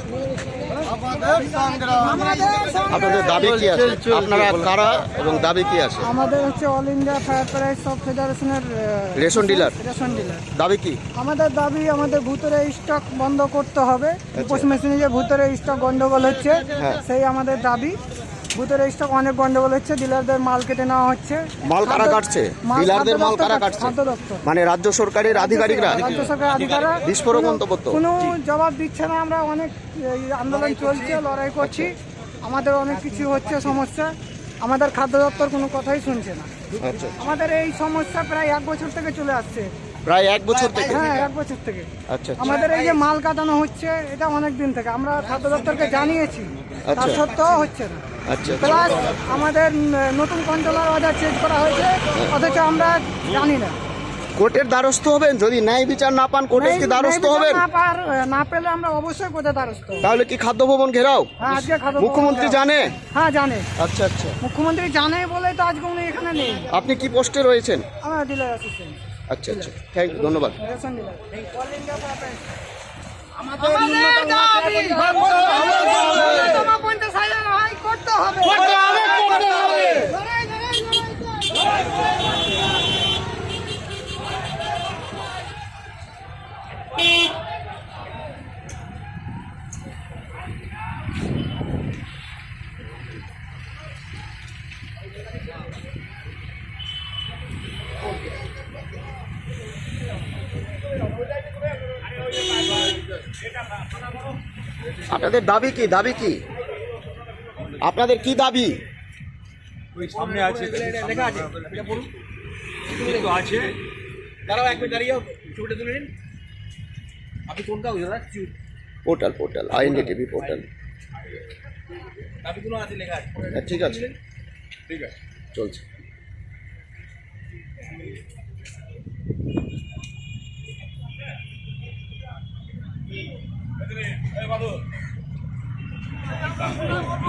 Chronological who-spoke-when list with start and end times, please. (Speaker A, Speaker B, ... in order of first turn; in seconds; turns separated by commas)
Speaker A: 1.1-3.5, Speaker B: 2.9-6.1, Speaker A: 6.0-10.4, Speaker B: 9.2-9.8, Speaker B: 10.5-11.0, Speaker A: 11.1-18.0, Speaker B: 14.3-14.7, Speaker B: 16.8-17.0, Speaker A: 18.5-24.4, Speaker B: 21.6-26.3, Speaker A: 25.3-36.5, Speaker C: 26.2-26.8, Speaker B: 27.0-28.1, Speaker B: 31.6-31.9, Speaker B: 36.8-37.2, Speaker A: 37.2-39.7, Speaker B: 40.0-41.2, Speaker A: 40.8-48.0, Speaker B: 42.1-42.7, Speaker B: 46.9-47.2, Speaker B: 48.3-49.4, Speaker A: 48.6-53.8, Speaker B: 54.4-57.6, Speaker A: 56.5-60.1, Speaker B: 60.0-63.0, Speaker A: 61.4-63.7, Speaker B: 63.8-64.4, Speaker A: 64.4-66.7, Speaker B: 66.7-67.8, Speaker A: 68.0-69.7, Speaker B: 69.3-70.6, Speaker A: 70.6-72.4, Speaker C: 73.4-75.4, Speaker A: 73.5-81.7, Speaker B: 105.1-106.4, Speaker B: 107.8-108.8, Speaker C: 109.9-112.1, Speaker C: 112.9-113.7, Speaker C: 114.5-116.1, Speaker C: 117.5-118.5, Speaker B: 119.0-120.7, Speaker C: 122.4-124.1, Speaker B: 123.5-124.0, Speaker B: 125.5-125.8